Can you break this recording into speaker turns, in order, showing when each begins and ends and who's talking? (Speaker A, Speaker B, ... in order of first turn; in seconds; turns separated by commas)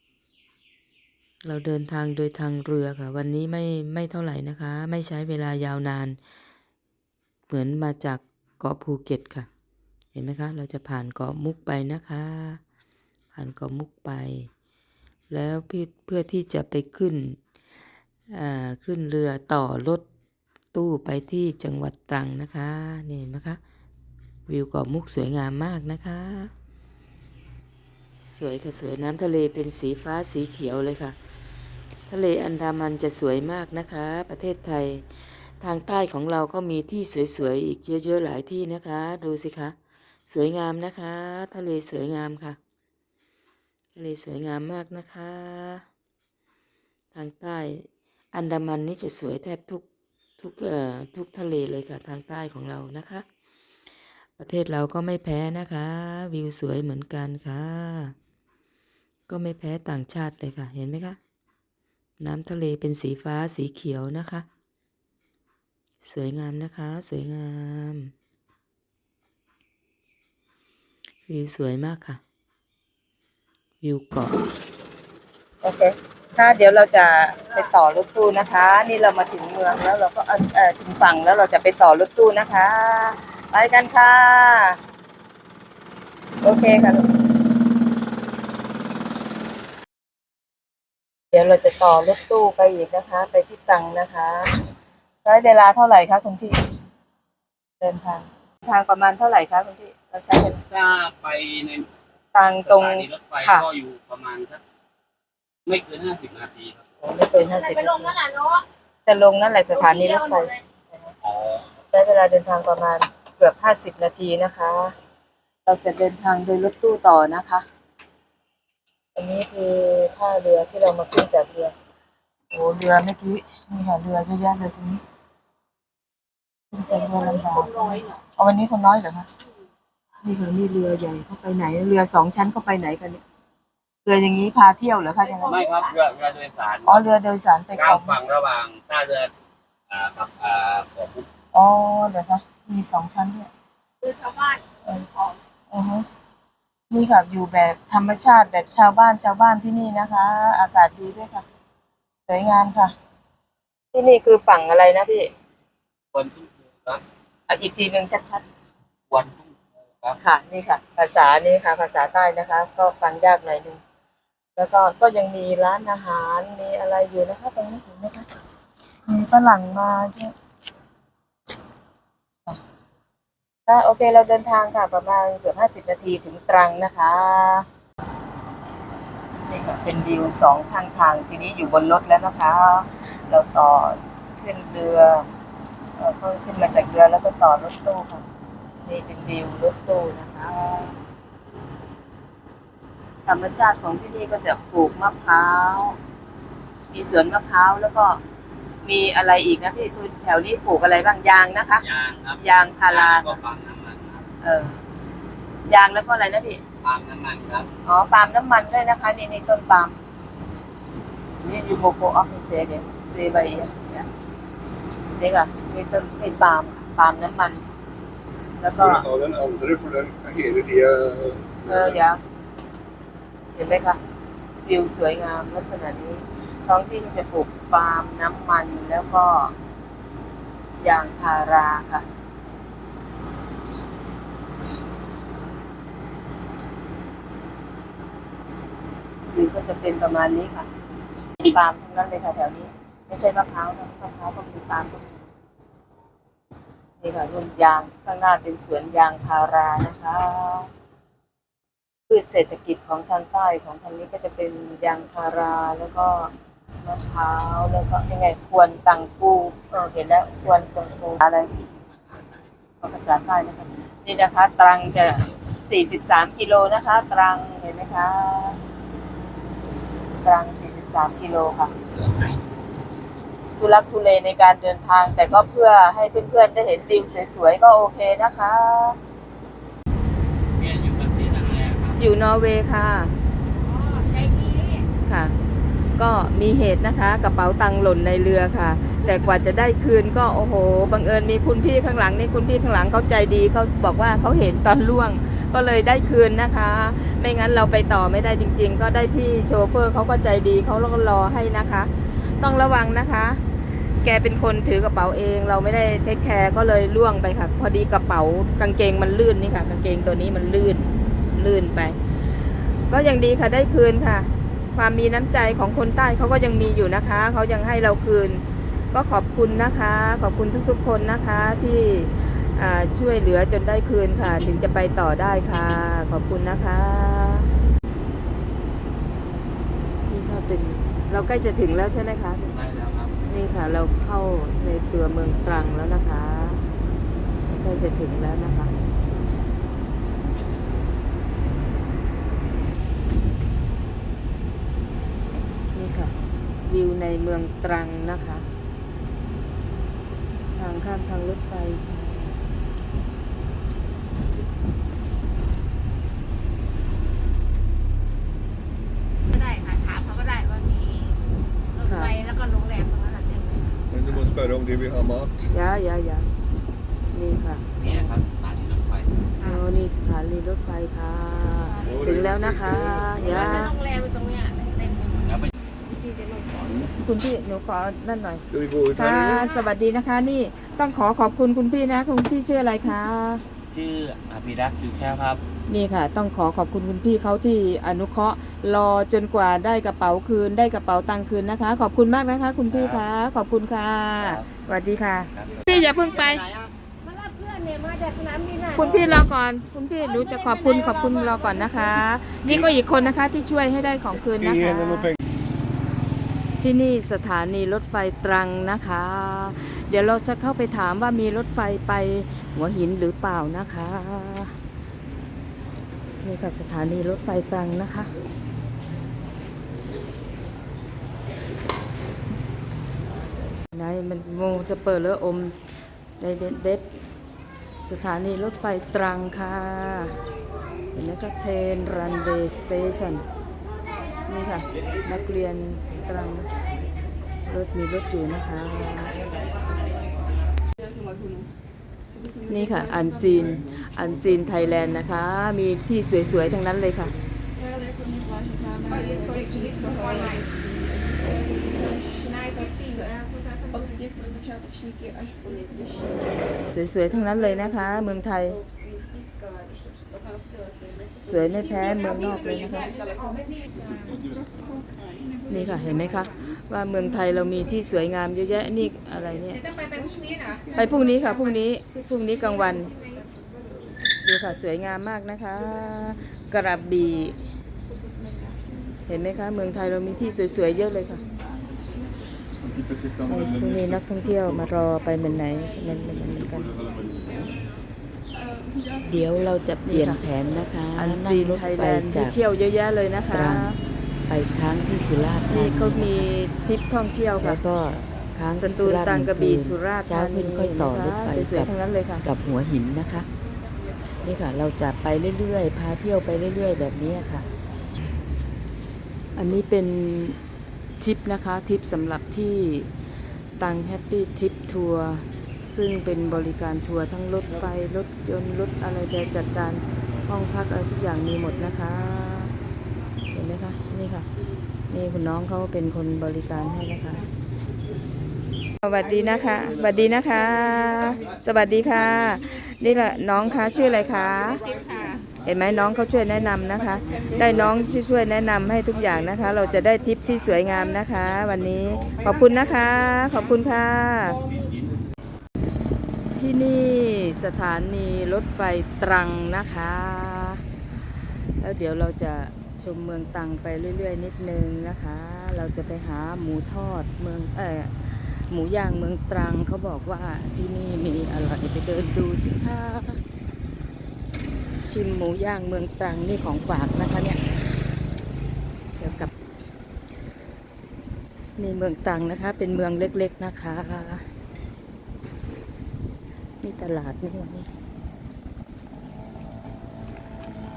Speaker A: 1.4-6.2, Speaker A: 7.5-9.5, Speaker A: 10.1-12.6, Speaker A: 13.3-14.5, Speaker A: 15.3-17.4, Speaker A: 18.3-20.1, Speaker A: 20.7-23.6, Speaker A: 24.5-26.5, Speaker A: 28.3-31.2, Speaker A: 32.1-39.8, Speaker A: 40.3-42.6, Speaker A: 44.0-45.8, Speaker A: 47.1-49.8, Speaker A: 50.4-53.2, Speaker A: 54.4-58.1, Speaker A: 59.3-61.2, Speaker A: 62.2-64.5, Speaker A: 66.0-68.1, Speaker A: 71.3-72.2, Speaker A: 73.8-74.3, Speaker B: 75.6-84.8, Speaker B: 86.4-87.0, Speaker B: 91.3-94.5, Speaker B: 95.2-96.8, Speaker B: 97.8-100.6, Speaker C: 100.7-101.9, Speaker B: 102.3-103.7, Speaker C: 102.5-104.6, Speaker C: 105.7-106.8, Speaker B: 107.0-110.5, Speaker D: 109.9-110.3, Speaker C: 111.2-111.6, Speaker B: 111.9-114.9, Speaker B: 115.7-117.7, Speaker B: 119.2-121.7, Speaker B: 122.5-125.0, Speaker B: 126.7-129.3, Speaker B: 130.2-133.2, Speaker B: 134.1-135.6, Speaker C: 135.4-137.1, Speaker B: 136.9-138.2, Speaker C: 137.8-139.3, Speaker C: 139.9-141.3, Speaker B: 141.5-143.5, Speaker D: 144.0-144.6, Speaker B: 145.7-146.1, Speaker B: 146.9-151.4, Speaker B: 152.3-152.9, Speaker B: 153.9-155.3, Speaker C: 156.1-157.0, Speaker B: 157.5-158.4, Speaker C: 159.1-160.2, Speaker B: 160.2-163.8, Speaker B: 164.6-168.3, Speaker B: 169.1-170.3, Speaker B: 173.7-177.7, Speaker B: 179.5-185.3, Speaker B: 186.0-188.2, Speaker B: 188.8-191.0, Speaker B: 193.3-196.0, Speaker B: 196.9-198.2, Speaker B: 198.8-201.8, Speaker C: 201.8-204.2, Speaker B: 202.4-203.4, Speaker B: 204.4-204.8, Speaker B: 205.7-206.6, Speaker C: 206.8-207.7, Speaker B: 207.8-210.0, Speaker B: 211.4-214.1, Speaker B: 215.2-217.6, Speaker B: 218.6-219.1, Speaker E: 218.8-221.9, Speaker B: 221.7-222.2, Speaker B: 223.6-224.0, Speaker B: 224.7-229.5, Speaker B: 230.8-232.1, Speaker B: 239.3-240.7, Speaker B: 241.4-245.2, Speaker B: 247.0-250.7, Speaker B: 252.1-256.3, Speaker B: 256.8-261.5, Speaker B: 262.8-268.6, Speaker B: 270.2-271.7, Speaker B: 273.6-279.0, Speaker C: 280.6-282.0, Speaker B: 282.0-283.1, Speaker D: 283.6-284.9, Speaker B: 285.1-285.4, Speaker B: 286.0-303.4, Speaker B: 304.0-312.0, Speaker B: 312.9-318.4, Speaker B: 318.9-327.5, Speaker B: 330.1-332.5, Speaker C: 332.5-333.1, Speaker B: 333.3-336.6, Speaker B: 337.5-338.7, Speaker B: 345.7-346.1, Speaker B: 346.7-348.4, Speaker B: 350.6-351.8, Speaker D: 359.3-361.1, Speaker D: 361.8-363.6, Speaker B: 361.9-362.1, Speaker E: 364.1-365.3, Speaker B: 365.5-366.3, Speaker B: 367.1-368.1, Speaker C: 367.8-369.1, Speaker B: 369.4-373.8, Speaker D: 371.7-372.0, Speaker E: 371.9-373.2, Speaker D: 373.4-375.2, Speaker C: 375.2-375.5, Speaker D: 376.0-376.9, Speaker B: 377.0-383.4, Speaker E: 378.7-379.4, Speaker C: 383.7-385.4, Speaker B: 385.7-396.5, Speaker C: 392.7-393.1, Speaker C: 394.2-394.5, Speaker C: 395.3-395.9, Speaker D: 397.0-399.2, Speaker B: 398.8-405.1, Speaker D: 400.1-402.0, Speaker B: 406.6-414.6, Speaker B: 416.2-418.1, Speaker B: 423.7-425.6, Speaker B: 426.2-427.0, Speaker B: 427.9-430.2, Speaker B: 430.9-433.2, Speaker B: 434.3-436.5, Speaker B: 437.5-439.2, Speaker B: 442.5-447.1, Speaker D: 448.9-450.4, Speaker D: 452.8-453.2, Speaker B: 456.7-458.6, Speaker B: 461.2-462.9, Speaker B: 465.5-469.7, Speaker D: 470.0-470.6, Speaker B: 470.7-472.9, Speaker B: 474.2-477.4, Speaker B: 479.1-481.2, Speaker B: 483.3-486.8, Speaker A: 489.0-492.4, Speaker B: 489.9-490.2, Speaker B: 490.9-493.8, Speaker A: 493.3-493.8, Speaker A: 494.3-496.3, Speaker B: 495.5-497.6, Speaker A: 497.4-503.3, Speaker B: 498.6-502.2, Speaker A: 504.2-507.5, Speaker B: 509.4-510.4, Speaker B: 511.0-512.9, Speaker B: 513.6-522.5, Speaker B: 523.3-524.3, Speaker B: 524.9-527.3, Speaker B: 528.8-534.6, Speaker B: 535.4-544.4, Speaker B: 546.4-550.6, Speaker B: 551.6-563.2, Speaker B: 564.8-567.4, Speaker B: 569.0-569.3, Speaker B: 571.6-574.3, Speaker B: 576.6-577.7